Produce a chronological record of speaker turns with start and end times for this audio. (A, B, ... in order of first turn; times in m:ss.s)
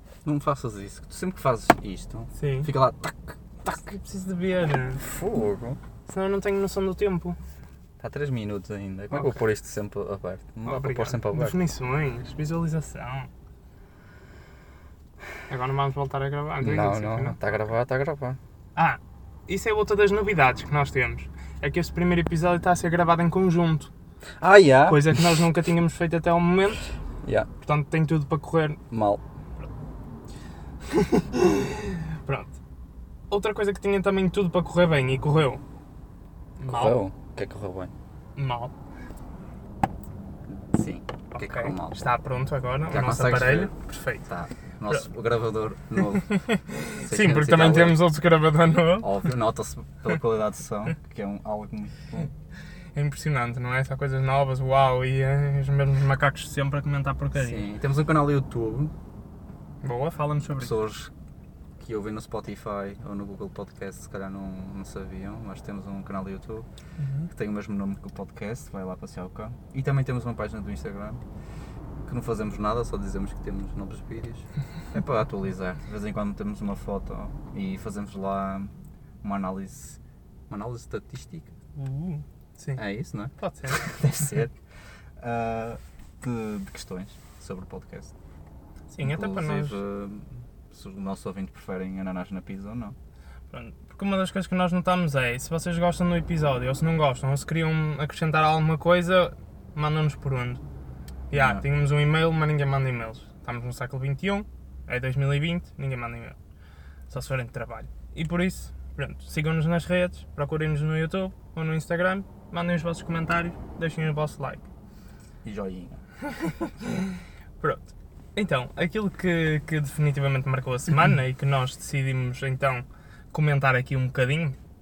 0:00.2-0:03.4 A
0:02.4-0:02.7 B
0:03.6-0:05.0 B
0:05.0-0:05.8 A
0:06.1-0:07.4 B
0:08.0-0:11.6 A
0:09.1-0:09.4 B
0:10.7-0:13.3 B
0:15.5-0:17.4 B
0:16.6-0:18.4 A
0:18.8-0:23.9 B
0:24.4-0:25.3 A
0:24.9-0:26.9 B
0:27.2-0:27.5 A
0:27.6-0:28.8 B
0:28.9-0:29.2 A
0:30.8-0:32.6 B
0:33.3-0:35.6 B
0:36.6-0:37.0 B
0:36.6-0:37.9 A
0:38.4-0:38.7 B
0:40.5-0:42.0 A
0:41.3-0:44.2 B
0:42.9-0:43.7 A
0:44.3-0:46.4 A
0:46.1-0:49.3 B
0:47.0-0:48.0 A
0:49.0-0:52.3 A
0:53.0-0:57.7 B
0:57.4-0:58.9 A
0:59.8-1:00.7 B
1:00.6-1:01.1 A
1:01.8-1:06.7 A
1:07.0-1:07.3 B
1:07.3-1:11.2 A
1:12.1-1:18.7 A
1:19.2-1:20.0 A
1:20.5-1:21.5 A
1:21.8-1:22.8 B
1:22.8-1:24.5 A
1:23.4-1:23.8 B
1:25.2-1:28.1 A
1:28.9-1:29.8 B
1:29.0-1:33.0 A
1:33.5-1:40.6 B
1:41.3-1:46.4 B
1:41.3-1:41.6 A
1:47.1-1:54.6 B
1:55.4-1:56.0 A
1:56.2-2:04.6 B